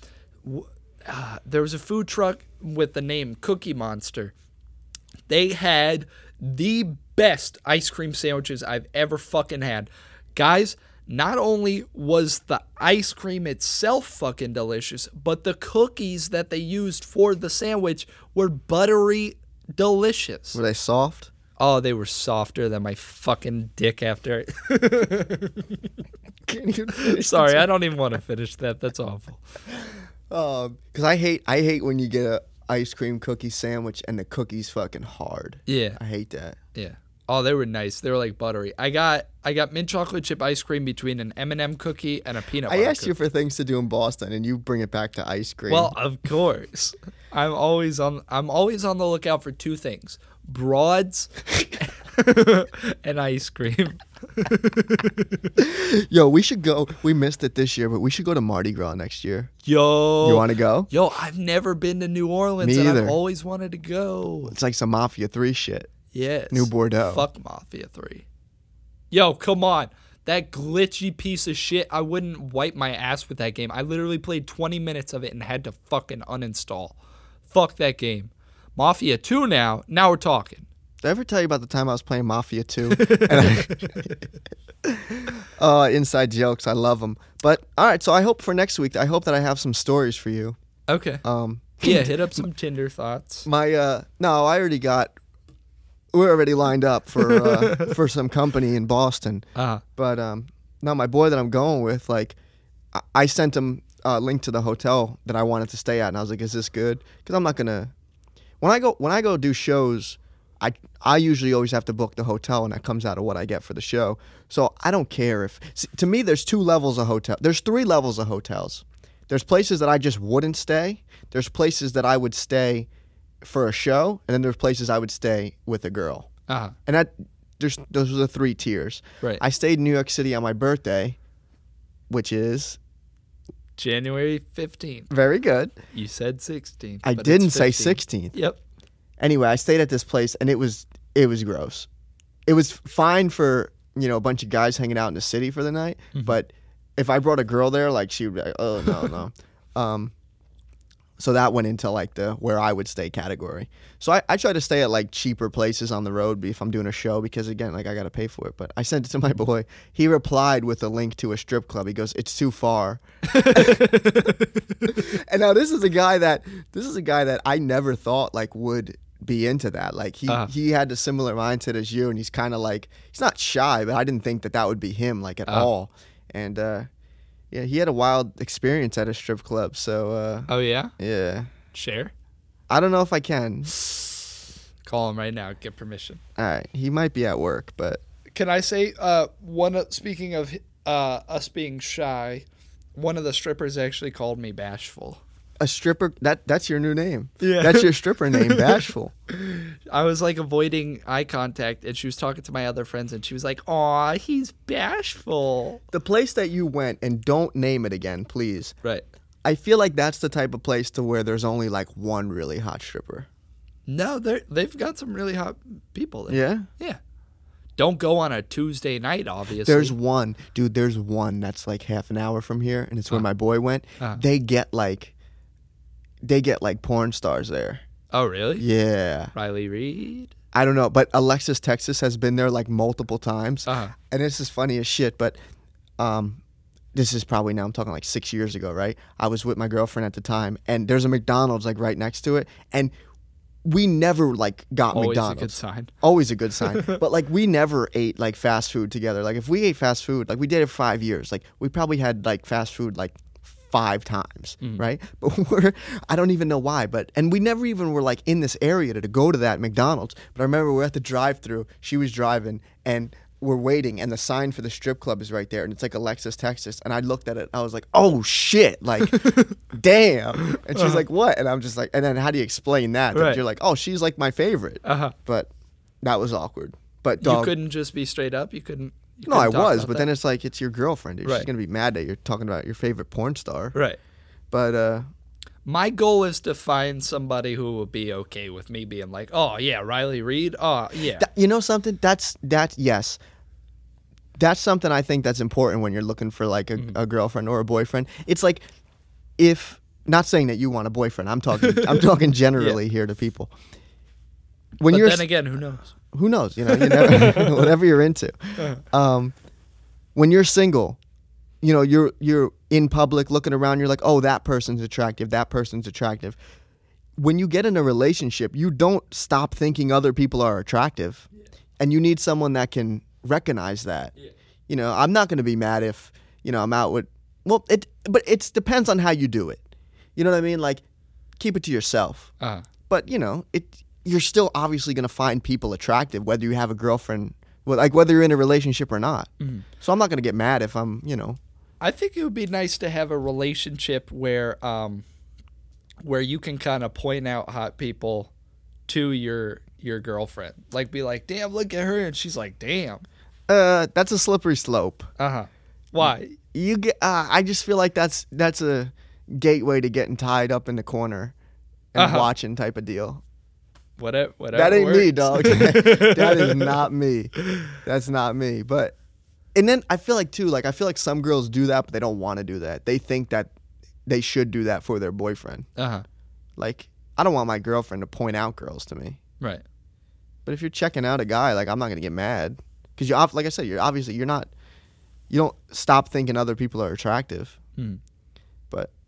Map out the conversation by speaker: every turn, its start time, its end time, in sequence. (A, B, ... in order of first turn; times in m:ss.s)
0:00.4-0:04.3 A
0:05.3-0:20.6 A
0:20.5-0:21.3 B
0:21.6-0:25.9 A
0:26.5-0:27.7 B
0:27.0-0:29.4 A
0:30.3-0:36.6 B
0:35.7-0:36.0 A
0:36.8-0:43.2 A
0:42.7-0:45.9 B
0:45.7-0:51.3 A
0:52.1-0:55.5 A
0:55.6-0:59.5 B
0:59.7-1:04.5 A
1:00.2-1:00.9 B
1:02.6-1:03.2 B
1:04.5-1:05.9 B
1:06.1-1:08.3 A
1:06.5-1:07.3 B
1:09.1-1:17.0 A
1:17.5-1:20.7 A
1:21.0-1:24.3 B
1:22.9-1:24.0 A
1:24.8-1:30.6 B
1:30.9-1:31.2 A
1:31.2-1:32.4 B
1:31.8-1:33.5 A
1:33.5-1:35.1 B
1:36.1-1:42.4 B
1:37.2-1:38.0 A
1:39.6-1:39.8 A
1:42.9-1:47.9 B
1:48.6-2:02.9 B
2:03.4-2:06.3 B
2:06.5-2:06.8 A
2:06.9-2:11.2 B
2:12.1-2:12.8 B
2:13.8-2:15.1 A
2:15.1-2:15.8 B
2:15.9-2:18.6 A
2:17.0-2:18.3 B
2:19.2-2:21.9 B
2:22.5-2:30.1 B
2:26.1-2:26.4 A
2:31.2-2:44.3 B
2:43.3-2:45.0 A
2:44.9-2:56.9 B
2:57.5-3:00.5 B
3:00.5-3:00.9 A
3:01.0-3:01.5 B
3:01.7-3:02.1 A
3:02.7-3:03.7 B
3:03.8-3:04.2 A
3:04.8-3:06.2 A
3:06.4-3:08.0 B
3:08.3-3:15.2 A
3:15.6-3:19.1 B
3:17.4-3:25.8 A
3:25.9-3:28.7 B
3:29.4-3:33.3 B
3:33.9-3:37.0 A
3:36.3-3:36.7 B
3:37.8-3:40.0 A
3:39.6-3:45.1 B
3:46.2-3:47.8 B
3:48.1-3:48.6 A
3:48.6-3:49.3 B
3:49.3-3:50.3 A
3:50.5-3:55.4 B
3:53.7-3:53.9 A
3:56.0-3:56.4 B
3:56.9-4:02.9 B
4:03.6-4:35.5 B
4:04.9-4:05.9 A
4:06.7-4:07.0 A
4:29.1-4:29.6 A
4:30.4-4:31.0 A
4:33.1-4:33.4 A
4:34.8-4:35.2 A
4:36.0-4:37.6 B
4:37.2-4:40.1 A
4:39.3-4:43.8 B
4:44.5-4:45.1 B
4:45.7-4:51.3 A
4:51.2-4:53.2 B
4:54.4-4:58.6 B
4:59.4-5:03.5 B
5:01.6-5:02.0 A
5:04.8-5:05.3 B
5:04.9-5:05.9 A
5:06.1-5:09.3 B
5:06.7-5:07.6 A
5:10.2-5:11.0 B
5:11.6-5:16.4 B
5:17.2-5:21.3 B
5:21.8-5:24.1 B
5:24.7-5:29.6 B
5:30.2-5:30.8 B
5:31.4-5:32.3 B
5:32.4-5:32.7 A
5:32.9-5:39.3 B
5:39.8-5:41.4 B
5:41.8-5:45.0 A
5:46.0-5:48.3 A
5:48.9-5:53.0 A
5:53.5-5:55.1 B
5:55.2-5:56.4 A
5:56.0-6:01.3 B
6:01.9-6:03.2 B
6:02.0-6:02.3 A
6:04.0-6:06.8 A
6:04.5-6:09.0 B
6:09.6-6:13.5 B
6:14.1-6:15.7 B
6:15.8-6:16.0 A
6:16.6-6:19.2 B
6:20.5-6:24.5 B
6:25.3-6:27.6 B